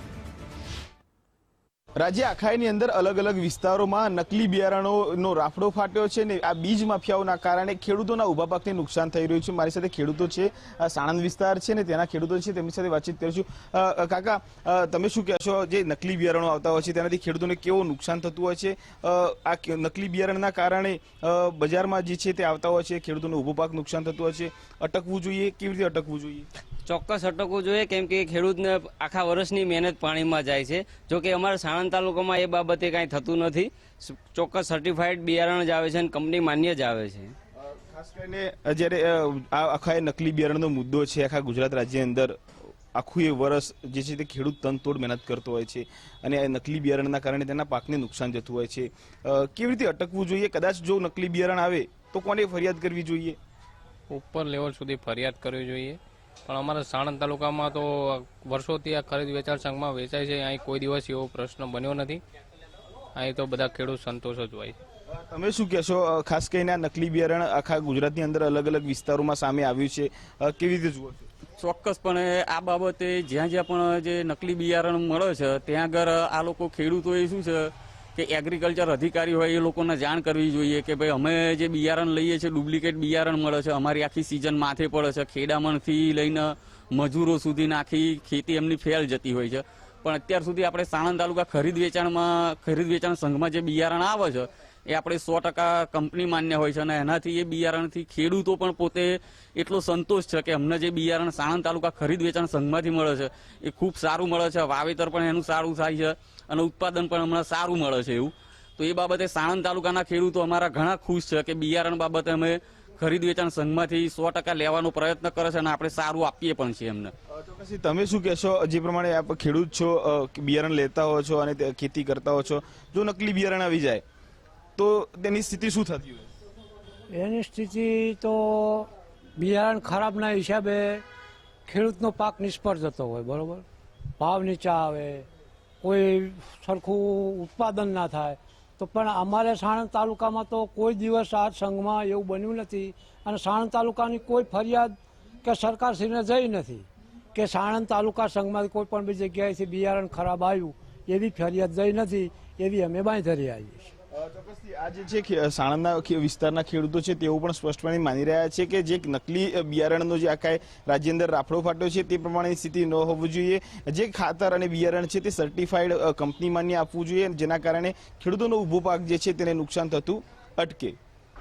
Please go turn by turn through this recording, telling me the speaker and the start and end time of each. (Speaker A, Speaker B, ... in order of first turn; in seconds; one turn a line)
Speaker A: 2.0-26.5
Speaker B: 26.9-37.3
Speaker A: 37.7-42.4
Speaker A: 42.9-53.4
Speaker C: 54.1-62.2
Speaker C: 63.1-64.8
Speaker A: 65.1-71.3
Speaker D: 71.6-117.1
Speaker A: 117.3-124.0
Speaker A: 124.8-126.3
Speaker E: 127.1-131.0
Speaker E: 131.7-133.6
Speaker E: 134.2-135.3
Speaker E: 135.8-153.9
Speaker A: 154.1-171.0